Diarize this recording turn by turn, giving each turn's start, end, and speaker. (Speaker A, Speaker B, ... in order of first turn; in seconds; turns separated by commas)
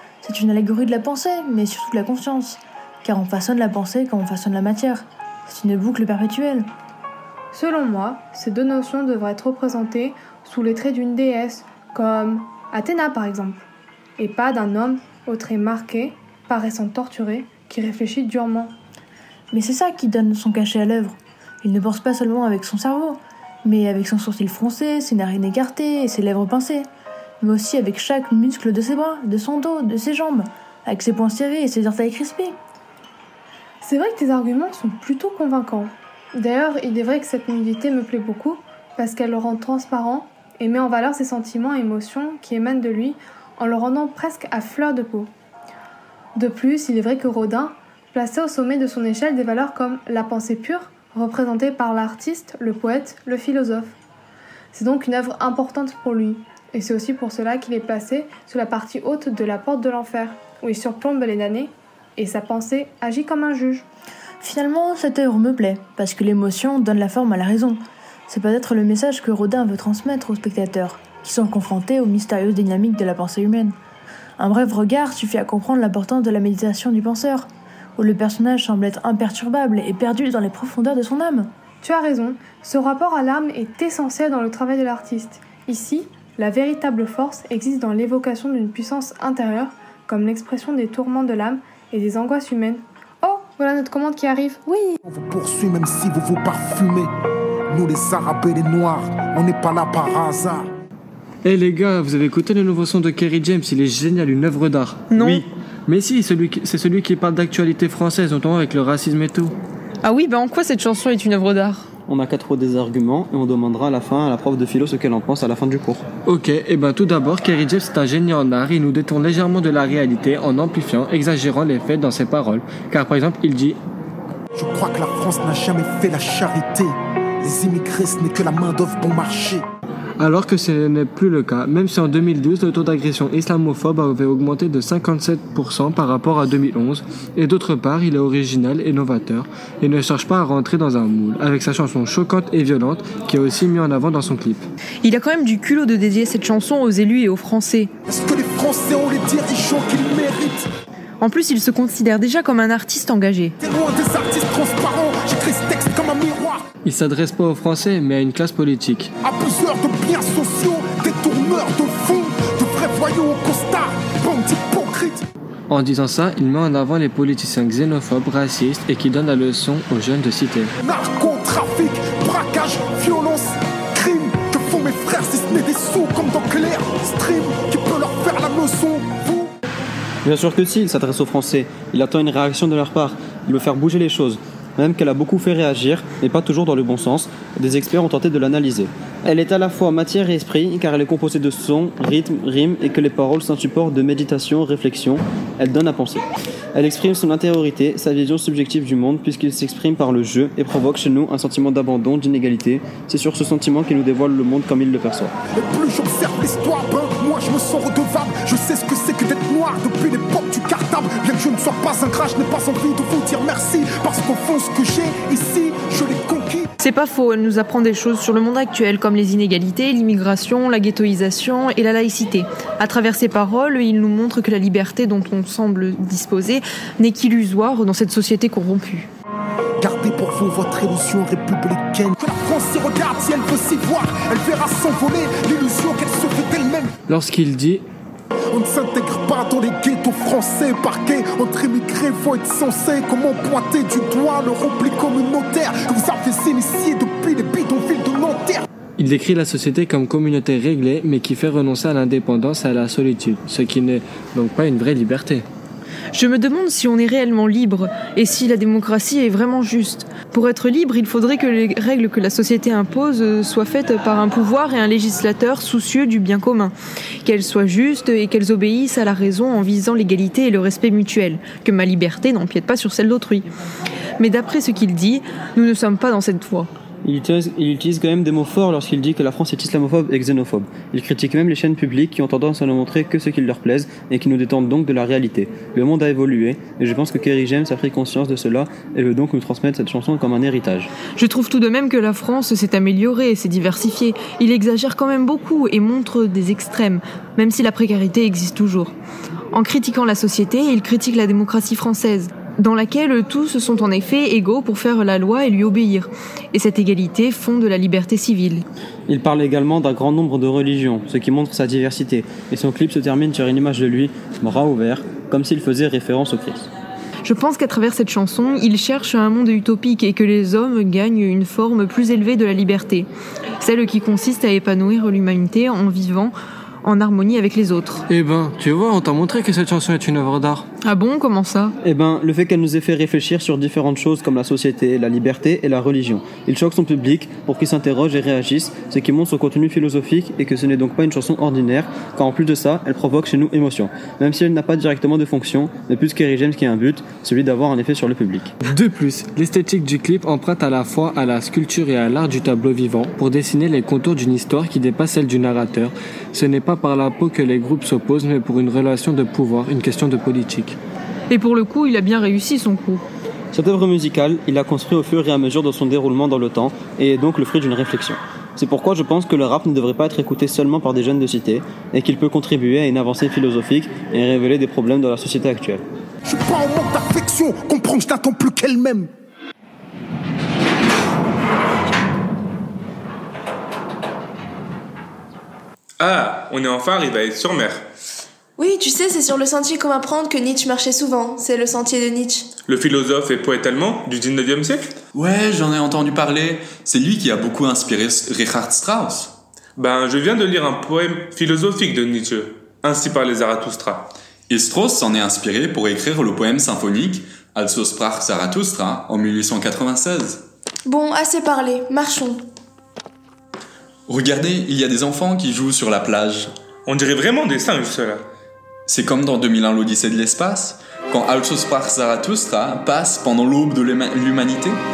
Speaker A: 0.2-6.7, Speaker B: 7.5-13.7, Speaker B: 14.2-18.8, Speaker A: 19.5-26.9, Speaker A: 27.4-32.6, Speaker B: 33.8-45.3, Speaker B: 46.4-54.0, Speaker B: 54.7-63.9, Speaker A: 64.4-73.8, Speaker A: 74.4-81.5, Speaker B: 81.8-94.9, Speaker C: 95.0-97.1, Speaker C: 97.7-100.7, Speaker D: 101.5-109.5, Speaker E: 105.1-105.5, Speaker E: 110.0-111.9, Speaker F: 112.1-116.0, Speaker D: 116.2-123.8, Speaker C: 124.5-129.6, Speaker D: 130.2-144.6, Speaker E: 145.0-147.9, Speaker C: 148.1-150.7, Speaker E: 151.2-153.6, Speaker C: 153.6-156.7, Speaker D: 156.8-159.1, Speaker C: 159.2-165.2, Speaker D: 165.7-170.7, Speaker C: 170.8-179.5, Speaker F: 180.2-205.3, Speaker C: 205.5-216.7, Speaker E: 216.8-229.1, Speaker C: 229.8-236.9, Speaker D: 237.1-237.8, Speaker C: 238.5-248.7, Speaker D: 249.0-255.4, Speaker E: 256.1-266.7, Speaker E: 267.2-273.5, Speaker E: 274.2-276.7, Speaker F: 277.0-290.9, Speaker E: 291.2-298.9, Speaker E: 299.5-308.6, Speaker F: 309.1-316.7, Speaker E: 317.2-323.1, Speaker E: 323.6-326.3, Speaker E: 326.8-328.0, Speaker D: 328.1-330.6, Speaker E: 330.8-331.8, Speaker F: 331.8-348.5, Speaker D: 348.7-360.8, Speaker E: 361.3-363.0, Speaker F: 363.5-375.8, Speaker C: 376.2-379.1, Speaker G: 386.0-387.9, Speaker H: 388.6-392.6, Speaker G: 392.7-394.9, Speaker I: 395.1-399.4, Speaker G: 399.8-404.1, Speaker I: 404.5-410.4, Speaker H: 410.9-412.4, Speaker I: 414.1-416.5, Speaker G: 416.9-418.3, Speaker I: 418.9-424.8